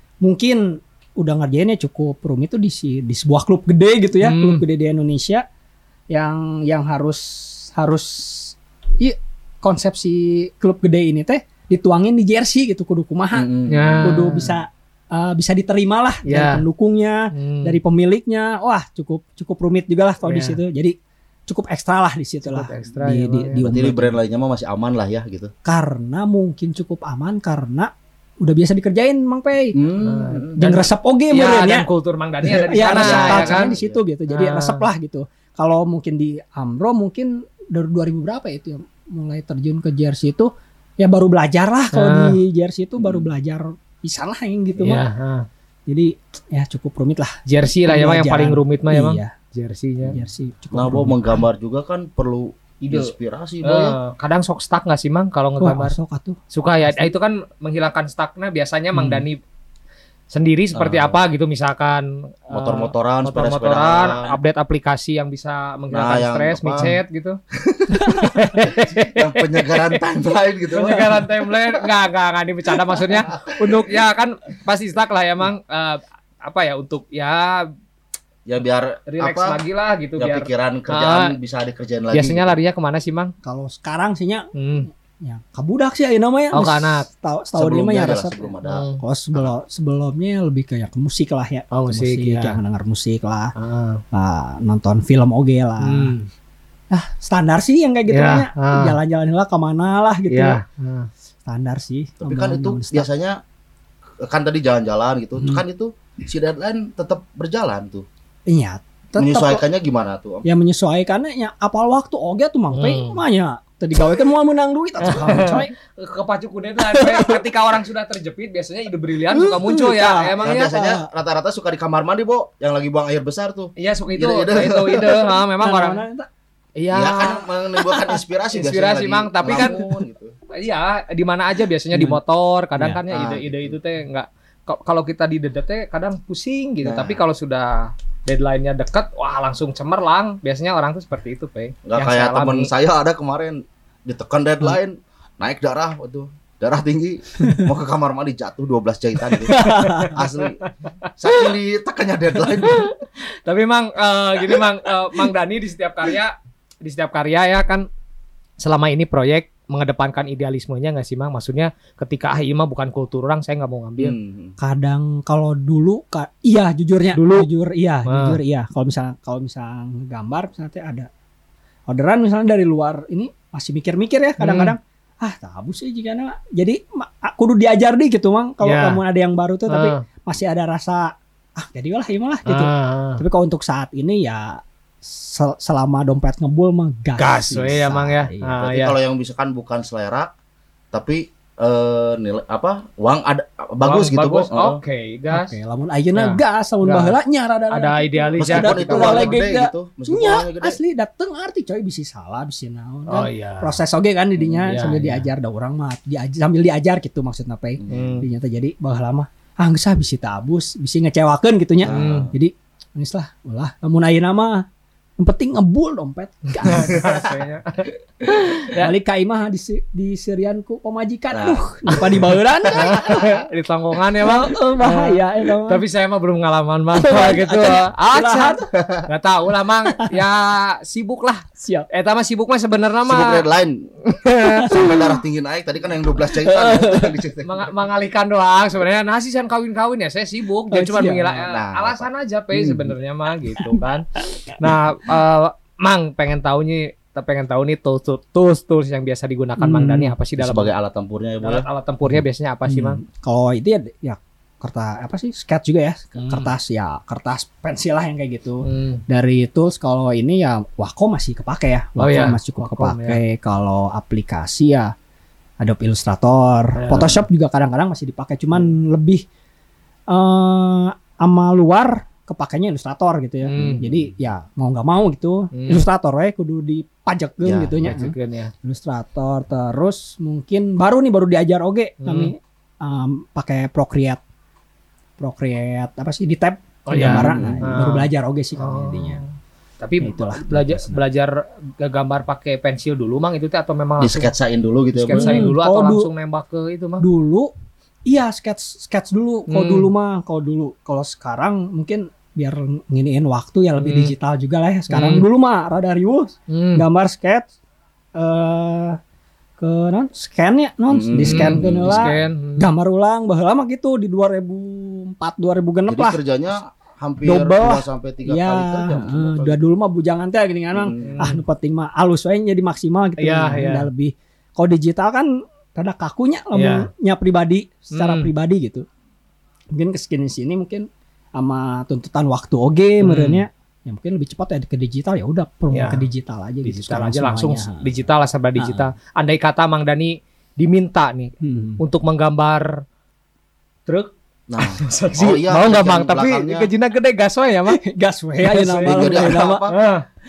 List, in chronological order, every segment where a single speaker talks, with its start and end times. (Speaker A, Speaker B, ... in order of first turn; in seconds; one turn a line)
Speaker A: 0.2-5.4
Speaker B: 4.2-4.6
Speaker A: 6.1-13.5
Speaker C: 13.3-14.1
Speaker B: 13.7-14.6
Speaker A: 14.0-20.9
Speaker B: 16.2-16.6
Speaker B: 17.3-17.8
Speaker B: 20.2-20.6
Speaker A: 21.5-24.2
Speaker B: 22.5-23.6
Speaker C: 23.6-25.5
Speaker A: 25.6-29.8
Speaker C: 29.8-30.6
Speaker B: 30.0-33.8
Speaker A: 30.6-31.9
Speaker A: 32.5-45.0
Speaker C: 32.7-34.0
Speaker B: 34.3-34.8
Speaker B: 41.9-42.4
Speaker C: 43.0-43.2
Speaker B: 44.8-45.5
Speaker A: 45.9-49.3
Speaker B: 47.5-50.1
Speaker A: 50.1-51.4
Speaker C: 50.7-54.0
Speaker B: 52.8-53.1
Speaker B: 53.6-56.0
Speaker A: 55.6-57.1
Speaker B: 56.5-59.4
Speaker A: 58.9-59.2
Speaker B: 60.3-67.4
Speaker C: 60.8-61.2
Speaker C: 62.5-64.3
Speaker C: 65.9-67.0
Speaker C: 67.5-71.8
Speaker B: 68.0-70.0
Speaker B: 70.7-77.7
Speaker C: 73.1-74.0
Speaker C: 78.5-79.6
Speaker B: 79.1-81.3
Speaker C: 80.2-82.5
Speaker B: 82.1-83.3
Speaker A: 83.4-84.5
Speaker B: 84.5-84.9
Speaker A: 85.2-88.5
Speaker B: 86.5-87.0
Speaker C: 87.5-88.8
Speaker B: 88.6-89.0
Speaker A: 89.0-93.5
Speaker B: 91.7-92.6
Speaker B: 93.6-94.0
Speaker A: 94.1-96.2
Speaker B: 95.8-96.3
Speaker A: 96.9-100.6
Speaker B: 98.1-99.0
Speaker B: 100.3-101.1
Speaker A: 101.5-103.1
Speaker C: 102.2-103.4
Speaker C: 104.2-108.0
Speaker A: 108.5-109.6
Speaker C: 109.2-110.5
Speaker A: 110.4-115.7
Speaker B: 112.7-113.2
Speaker B: 115.1-120.7
Speaker A: 116.8-117.4
Speaker A: 119.3-121.0
Speaker C: 120.4-125.3
Speaker B: 123.8-126.0
Speaker A: 125.6-126.3
Speaker B: 126.8-127.5
Speaker C: 126.9-130.3
Speaker B: 128.5-129.8
Speaker A: 129.5-129.8
Speaker B: 130.5-142.7
Speaker A: 131.9-132.2
Speaker C: 133.1-133.8
Speaker C: 136.8-137.2
Speaker C: 141.8-150.6
Speaker A: 147.4-147.7
Speaker A: 149.3-150.1
Speaker B: 149.6-151.5
Speaker C: 151.2-152.9
Speaker B: 152.6-157.8
Speaker B: 158.6-164.2
Speaker C: 164.0-164.5
Speaker A: 164.6-171.1
Speaker B: 167.1-167.5
Speaker B: 168.1-168.4
Speaker A: 171.9-188.5
Speaker B: 174.4-174.8
Speaker B: 178.6-179.0
Speaker B: 179.7-180.0
Speaker B: 182.5-183.2
Speaker B: 187.2-188.9
Speaker C: 188.6-190.3
Speaker C: 190.9-194.8
Speaker B: 193.8-195.5
Speaker A: 195.3-214.6
Speaker B: 196.1-197.2
Speaker B: 197.7-199.4
Speaker C: 198.4-200.8
Speaker B: 203.1-203.8
Speaker B: 204.6-205.2
Speaker C: 207.8-208.2
Speaker B: 207.9-208.2
Speaker C: 211.8-212.3
Speaker B: 211.9-212.3
Speaker A: 215.2-217.0
Speaker B: 216.6-218.9
Speaker C: 216.9-217.3
Speaker A: 218.8-223.1
Speaker C: 221.3-223.4
Speaker B: 222.7-233.4
Speaker A: 224.2-225.8
Speaker A: 226.9-228.6
Speaker C: 228.7-229.0
Speaker A: 231.6-231.9
Speaker C: 233.1-233.9
Speaker B: 234.1-234.8
Speaker A: 234.6-234.9
Speaker C: 234.7-237.7
Speaker A: 236.4-237.1
Speaker B: 237.4-250.7
Speaker A: 240.7-241.4
Speaker C: 241.4-242.9
Speaker A: 249.6-250.1
Speaker C: 250.4-251.7
Speaker B: 251.4-253.0
Speaker A: 252.1-264.9
Speaker B: 256.2-256.5
Speaker B: 258.6-259.0
Speaker B: 262.0-263.2
Speaker A: 265.6-269.2
Speaker B: 266.8-267.2
Speaker A: 270.1-284.2
Speaker B: 273.5-273.8
Speaker C: 273.5-273.8
Speaker B: 275.5-275.9
Speaker C: 277.4-277.7
Speaker B: 277.8-278.5
Speaker B: 282.0-282.3
Speaker A: 285.2-289.2
Speaker B: 286.9-289.3
Speaker C: 287.0-287.7
Speaker B: 289.8-294.3
Speaker A: 290.0-291.0
Speaker C: 294.0-295.5
Speaker B: 294.9-297.0
Speaker A: 295.1-296.1
Speaker A: 297.0-297.5
Speaker A: 298.1-307.5
Speaker B: 299.5-299.9
Speaker B: 303.8-304.1
Speaker B: 304.9-305.2
Speaker B: 306.5-306.8
Speaker A: 308.1-309.0
Speaker A: 309.6-316.2
Speaker C: 310.9-312.2
Speaker B: 311.2-312.7
Speaker C: 315.9-319.6
Speaker A: 317.2-328.8
Speaker C: 320.7-321.1
Speaker B: 321.0-321.4
Speaker B: 323.2-323.9
Speaker B: 326.5-326.9
Speaker B: 328.0-328.3
Speaker A: 329.7-330.9
Speaker A: 331.4-337.8
Speaker B: 333.0-333.5
Speaker B: 335.7-336.1
Speaker B: 336.6-342.8
Speaker A: 338.6-338.9
Speaker A: 341.4-341.8
Speaker B: 343.9-347.8
Speaker C: 344.5-346.7
Speaker A: 347.7-349.6
Speaker B: 348.4-350.0
Speaker C: 348.8-349.8